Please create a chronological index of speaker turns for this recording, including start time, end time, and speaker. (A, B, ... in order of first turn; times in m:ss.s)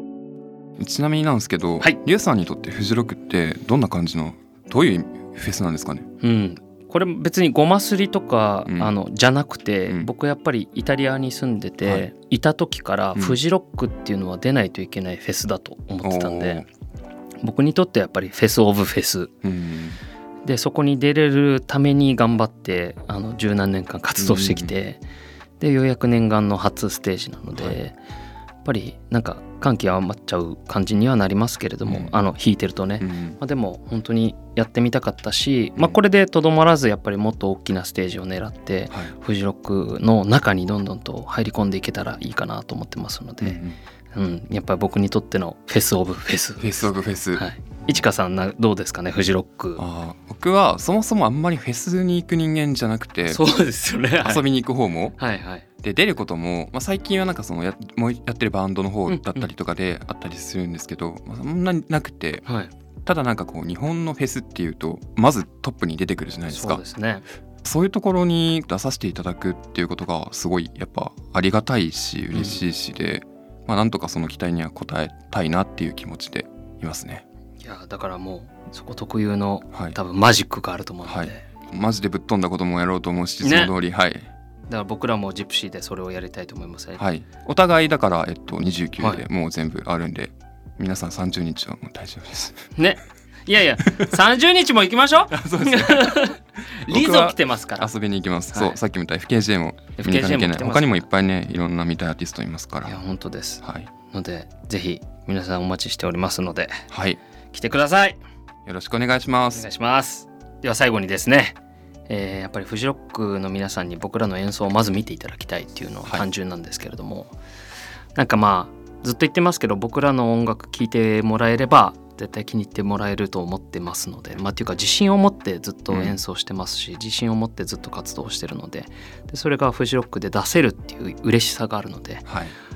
0:00.8-0:06.0 A
0:06.2-0:16.6 B
0:08.7-0:08.9 A
0:11.8-0:12.1 A
0:16.0-0:16.7 A
0:17.4-0:19.3 B
0:19.4-0:20.0 A
0:20.4-0:25.0 B
0:24.2-0:24.7 A
0:25.6-0:28.0 B
0:28.6-0:43.6 B
0:31.9-0:32.2 A
0:33.0-0:33.4 A
0:43.4-0:43.8 A
0:44.1-0:49.8 B
0:46.6-0:47.4 A
0:49.8-0:53.4 A
0:53.3-0:54.4 B
0:54.2-0:55.2 A
0:55.2-0:55.7 B
0:55.8-1:02.4 A
0:59.1-0:59.5 B
1:02.4-1:02.7 B
1:03.1-1:06.8 A
1:06.5-1:07.3 B
1:07.6-1:17.2 A
1:12.3-1:12.6 B
1:17.6-1:21.5 B
1:21.0-1:24.3 A
1:23.4-1:23.8 B
1:24.7-1:27.0 B
1:27.0-1:32.6 A
1:29.0-1:29.2 B
1:32.8-1:37.9 B
1:35.3-1:36.4 A
1:36.9-1:43.0 A
1:38.5-1:38.8 B
1:40.0-1:41.0 B
1:42.8-1:46.8 B
1:43.6-1:43.9 A
1:46.9-1:47.2 A
1:47.5-1:48.2 B
1:48.7-1:49.7 A
1:49.5-1:51.6 B
1:52.1-1:57.4 B
1:58.2-2:12.3 B
2:05.9-2:06.2 A
2:12.3-2:12.6 A